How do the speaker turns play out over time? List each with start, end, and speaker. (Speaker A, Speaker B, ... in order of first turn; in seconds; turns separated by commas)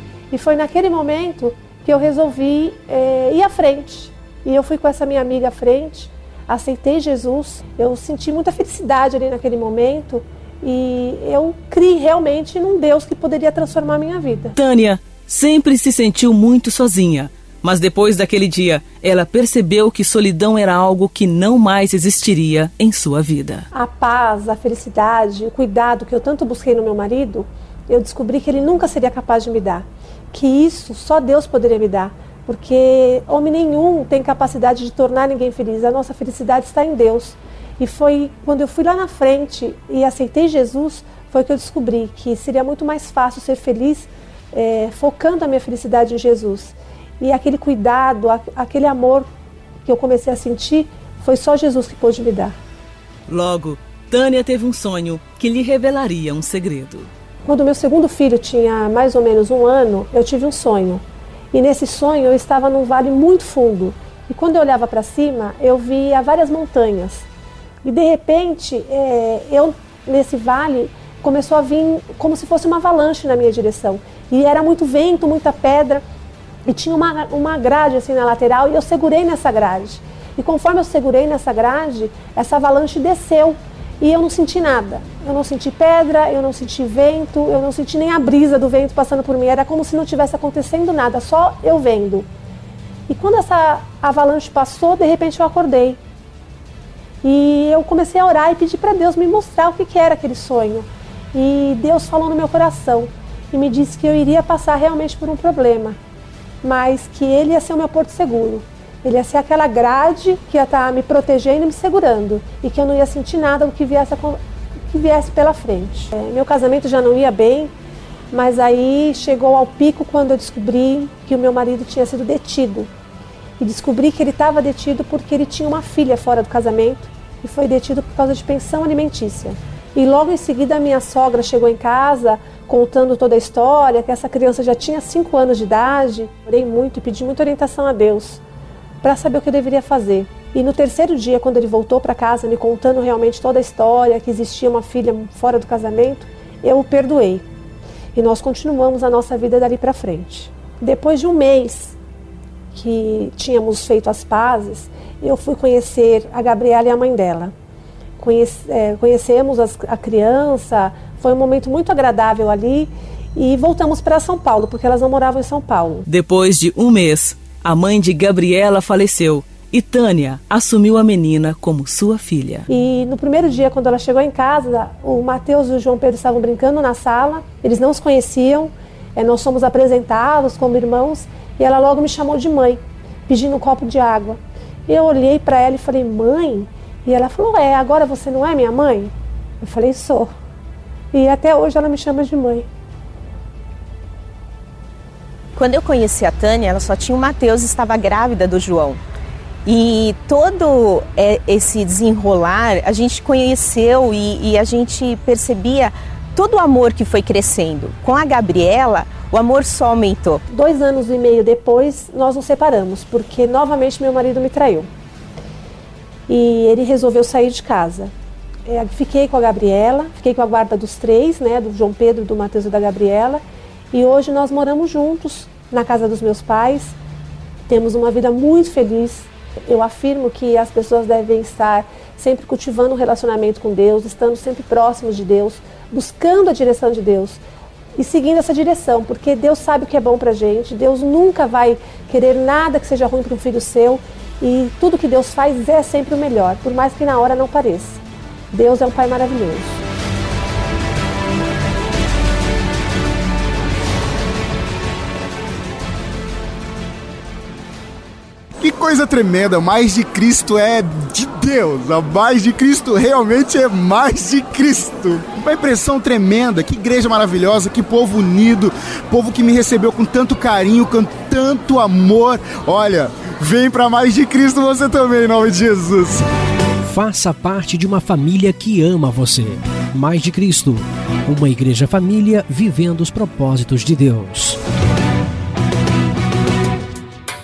Speaker A: 0.3-14.6, Speaker B: 14.6-23.7, Speaker A: 23.7-49.3, Speaker A: 49.8-52.5, Speaker B: 53.3-57.1, Speaker A: 57.4-67.2, Speaker A: 67.8-76.0, Speaker A: 76.7-92.3, Speaker A: 93.1-96.0, Speaker A: 97.2-106.0, Speaker A: 106.6-114.4, Speaker A: 114.9-117.7, Speaker A: 118.3-122.9, Speaker A: 123.6-138.4, Speaker A: 139.0-147.4, Speaker A: 148.1-151.9, Speaker A: 152.7-157.5, Speaker A: 158.2-166.1, Speaker B: 166.1-172.7, Speaker A: 172.7-190.3, Speaker A: 191.1-192.7, Speaker C: 195.5-199.0, Speaker C: 199.6-210.4, Speaker A: 210.5-214.9, Speaker A: 216.3-218.1, Speaker A: 218.7-223.4, Speaker A: 223.9-226.9, Speaker A: 227.7-237.4, Speaker A: 238.0-249.8, Speaker D: 258.6-276.2, Speaker E: 276.8-284.6